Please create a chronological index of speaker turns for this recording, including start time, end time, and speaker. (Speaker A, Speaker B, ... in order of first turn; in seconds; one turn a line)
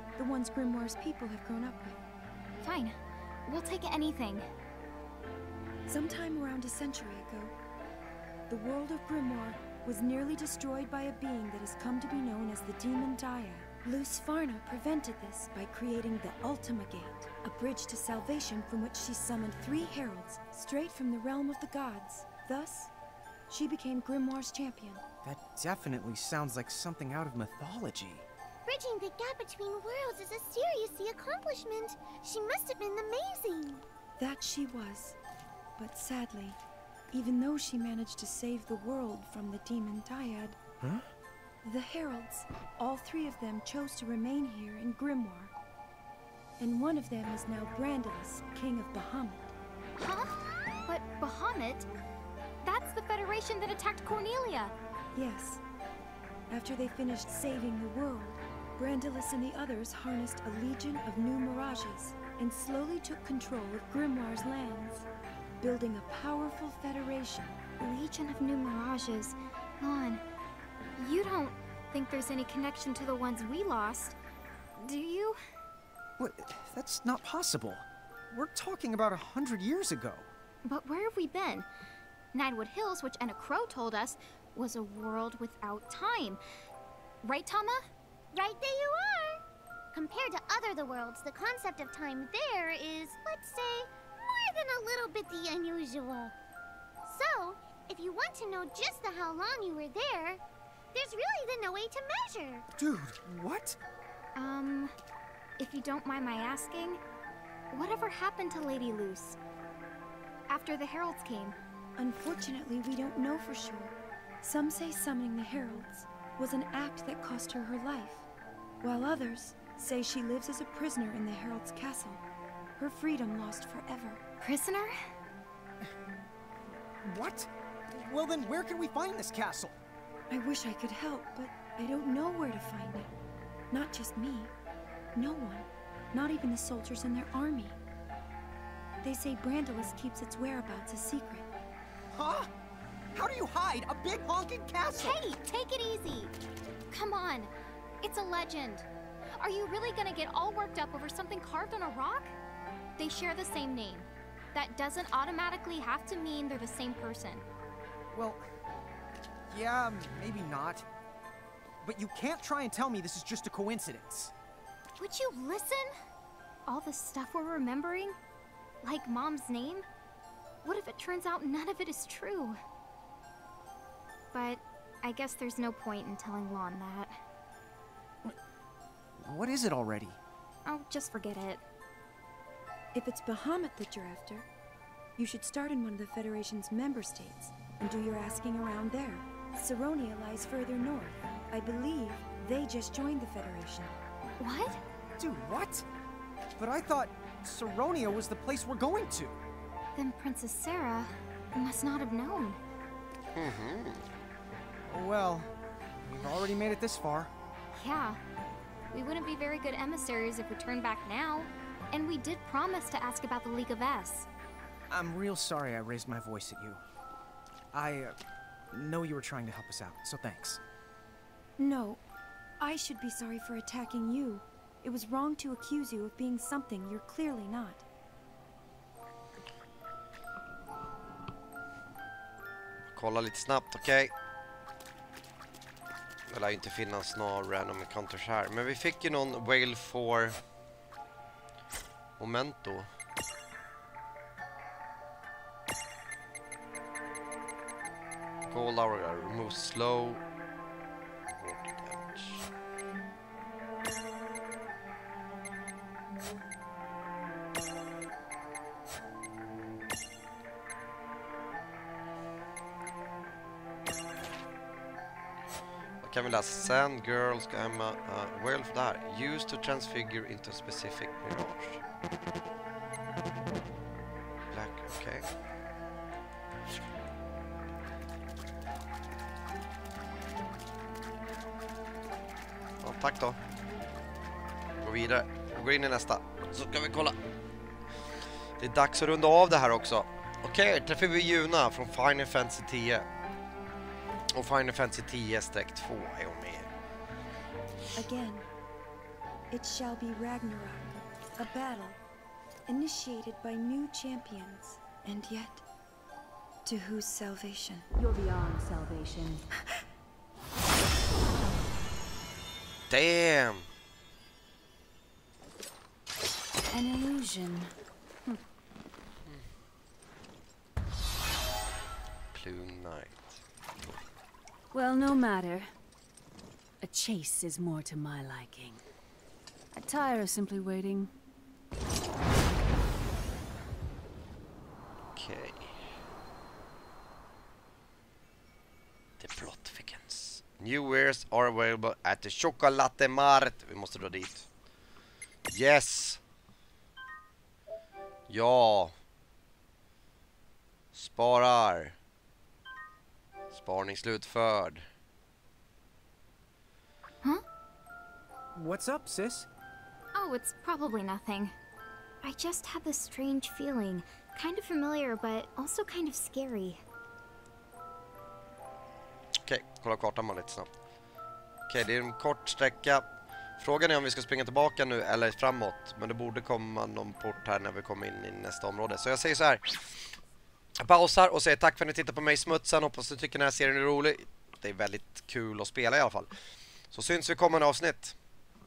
Speaker A: 0.2-2.0
Speaker B: 2.6-4.5
Speaker A: 5.9-7.5
Speaker A: 8.5-22.9
Speaker A: 23.5-25.0
Speaker C: 25.2-28.3
Speaker D: 28.6-33.9
Speaker A: 34.2-35.1
Speaker A: 35.8-36.6
Speaker A: 37.1-40.6
Speaker C: 40.8-41.1
Speaker A: 41.6-45.5
Speaker A: 46.6-49.5
Speaker B: 50.0-51.9
Speaker B: 52.6-54.7
Speaker A: 55.1-55.6
Speaker A: 56.5-65.1
Speaker A: 65.6-67.6
Speaker B: 67.8-70.2
Speaker B: 71.0-74.2
Speaker B: 74.8-75.4
Speaker C: 76.2-80.3
Speaker B: 80.6-81.7
Speaker B: 82.3-86.4
Speaker B: 87.2-87.9
Speaker D: 88.3-96.3
Speaker D: 97.0-100.4
Speaker D: 100.9-102.7
Speaker C: 102.8-103.8
Speaker B: 104.4-104.9
Speaker B: 105.6-107.0
Speaker B: 107.7-109.4
Speaker B: 110.5-111.5
Speaker A: 112.0-118.3
Speaker A: 118.8-122.2
Speaker A: 122.8-124.2
Speaker B: 124.4-124.9
Speaker C: 126.7-129.8
Speaker A: 130.3-133.1
Speaker A: 133.7-134.5
Speaker A: 135.1-137.8
Speaker A: 139.0-141.5
Speaker C: 142.1-142.5
Speaker C: 143.1-145.2
Speaker B: 145.0-146.3
Speaker B: 146.9-147.5
Speaker B: 148.0-152.3
Speaker B: 153.0-157.4
Speaker C: 158.1-158.4
Speaker C: 159.5-160.9
Speaker C: 161.8-164.3
Speaker B: 165.0-165.9
Speaker B: 166.7-168.2
Speaker B: 168.8-169.8
Speaker B: 170.6-172.6
Speaker B: 174.3-177.1
Speaker C: 179.2-180.2
Speaker B: 180.7-181.6
Speaker A: 182.9-184.5
Speaker A: 185.2-194.0
Speaker B: 194.4-194.8
Speaker C: 195.2-195.8
Speaker C: 196.6-199.4
Speaker B: 200.0-202.6
Speaker E: 203.3-204.1
Speaker C: 204.9-207.3
Speaker B: 207.7-208.2
Speaker B: 208.9-214.3
Speaker C: 214.9-216.8
Speaker C: 217.7-218.2
Speaker C: 218.7-220.6
Speaker A: 221.6-222.0
Speaker A: 222.6-227.8
Speaker E: 232.9-234.1
Speaker E: 236.3-240.4
Speaker E: 242.2-242.9
Speaker E: 248.5-250.2
Speaker E: 251.3-252.5
Speaker E: 266.0-271.8
Speaker E: 274.5-275.3
Speaker E: 282.8-283.4
Speaker E: 284.8-287.2
Speaker E: 288.6-293.1
Speaker E: 294.4-296.7
Speaker A: 297.9-298.5
Speaker A: 299.5-302.0
Speaker A: 302.7-305.6
Speaker A: 306.6-307.9
Speaker F: 307.9-309.4
Speaker E: 312.9-313.7
Speaker F: 316.7-317.7
Speaker E: 322.3-323.4
Speaker F: 324.7-325.7
Speaker F: 326.8-328.8
Speaker F: 329.7-331.1
Speaker E: 335.1-335.7
Speaker E: 339.2-344.5
Speaker E: 345.5-346.2
Speaker E: 348.3-348.9
Speaker E: 350.9-351.9
Speaker E: 353.5-354.9
Speaker C: 358.5-359.5
Speaker B: 360.1-361.6
Speaker B: 362.2-366.8
Speaker E: 369.4-370.7
Speaker E: 371.7-373.1
Speaker E: 373.6-379.8
Speaker E: 380.8-386.3
Speaker E: 386.9-388.1